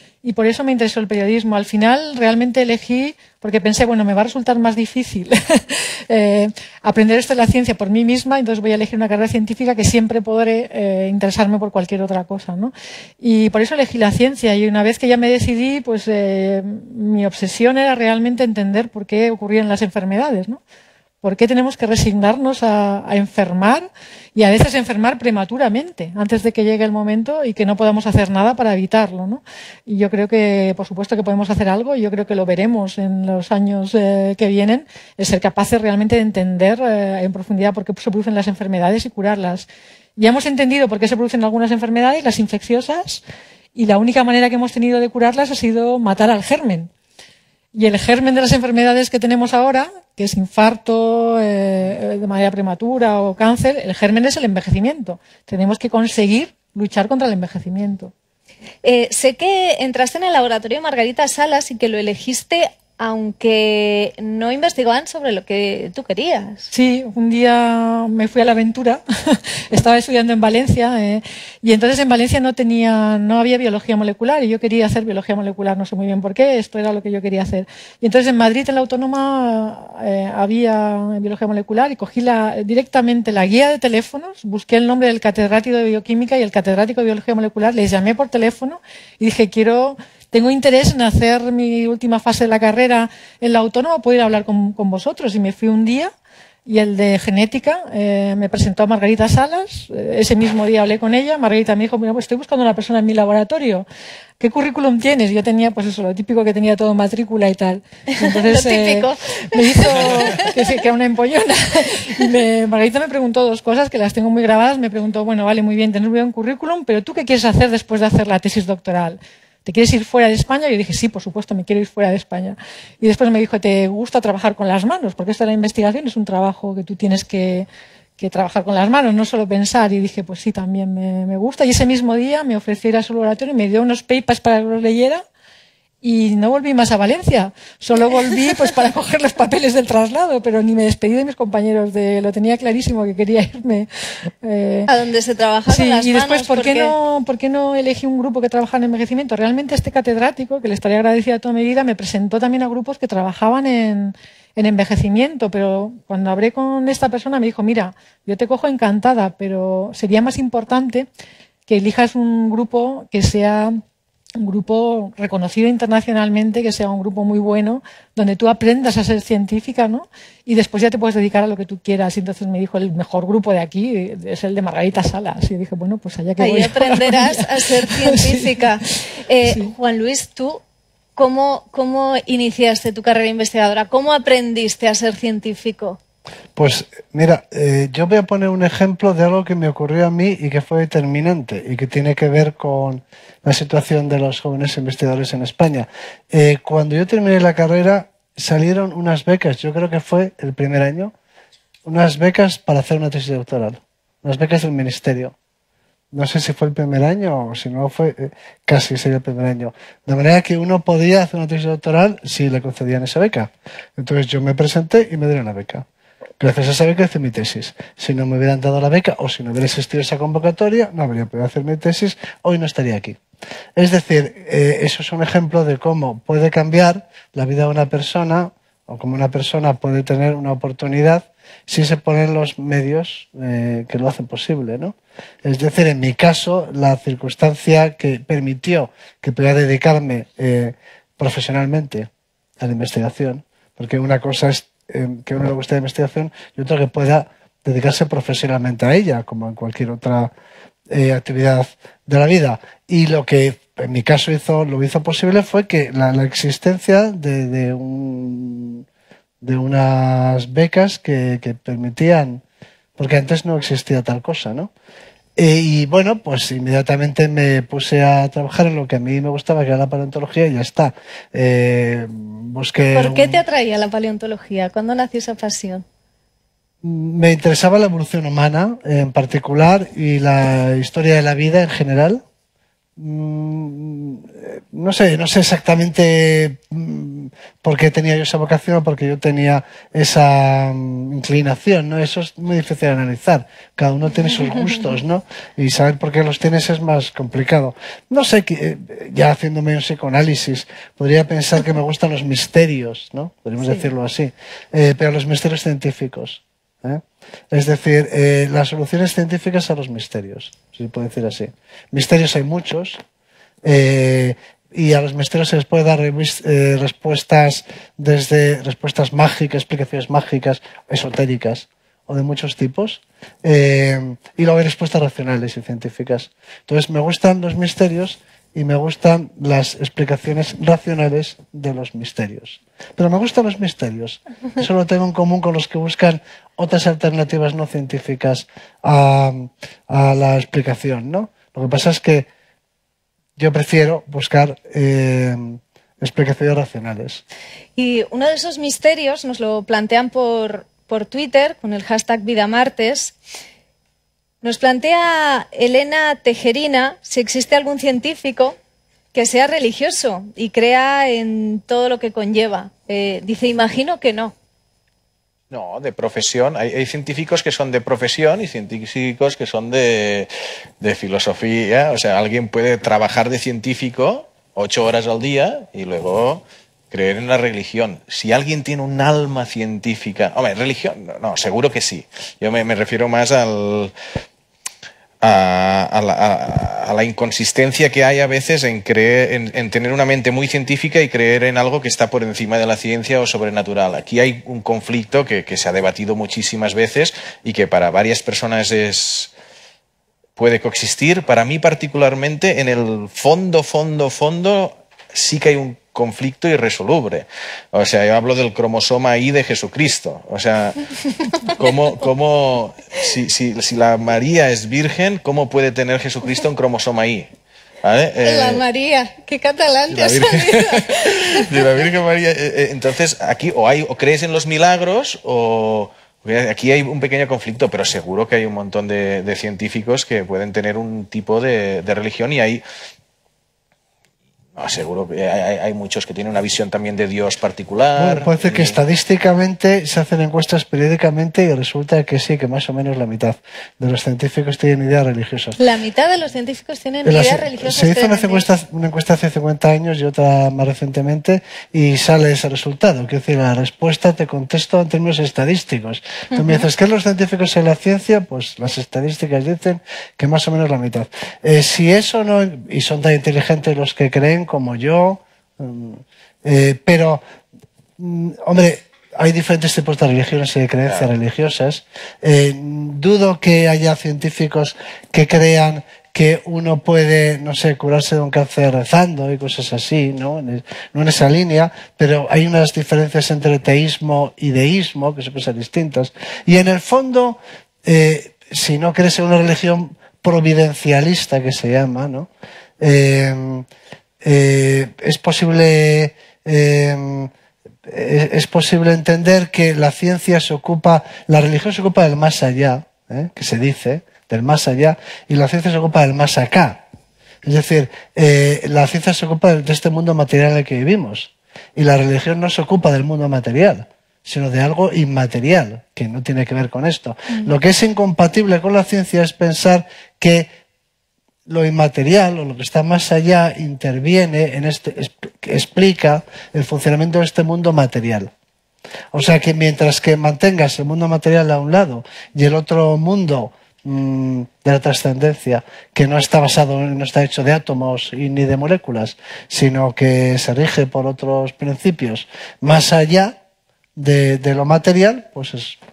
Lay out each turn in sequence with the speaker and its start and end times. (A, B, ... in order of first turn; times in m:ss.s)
0:00.2-0:20.6 A
0:21.2-0:43.2 A
0:43.7-0:46.9 A
0:47.7-0:58.1 A
0:58.8-1:06.7 B
1:06.7-1:36.1 A
1:36.6-1:43.8 A
1:44.4-2:07.7 A
1:48.2-1:50.5 B
2:08.2-2:15.2 A
2:16.0-2:23.9 A
2:24.4-2:24.9 A
2:24.9-2:26.9 B
2:25.7-2:41.1 A
2:41.7-2:43.8 A
2:44.4-2:58.6 A
2:56.4-3:00.6 B
2:59.4-2:59.7 A
3:01.2-3:06.0 B
3:06.6-3:21.1 C
3:21.8-3:25.3 C
3:26.1-3:35.8 C
3:36.4-3:43.2 C
3:43.8-4:10.3 C
4:10.9-4:18.8 C
4:19.4-4:22.4 C
4:23.0-4:24.7 C
4:25.4-4:33.4 C
4:32.9-4:35.8 B
4:36.8-4:42.2 C
4:43.0-5:13.0 C
5:13.6-5:42.3 C
5:43.4-5:47.2 C
5:47.8-5:53.1 B
5:54.4-5:58.6 B
5:59.1-6:04.3 B
6:05.5-6:23.9 D
6:25.2-6:39.3 D
6:40.4-6:50.8 D
6:51.6-6:57.3 D
6:57.8-6:58.6 D
6:58.2-7:01.7 B
6:59.9-7:12.6 D
7:14.6-7:18.8 D
7:18.0-7:25.6 C
7:25.6-7:28.4 B
7:27.0-7:47.2 C
7:36.3-7:36.6 B
7:48.0-8:12.3 C
8:12.8-8:13.7 C
8:14.2-8:17.3 C
8:17.8-8:26.8 C
8:27.4-8:40.5 C
8:41.5-8:48.3 C
8:49.1-9:03.4 C
9:04.0-9:05.8 C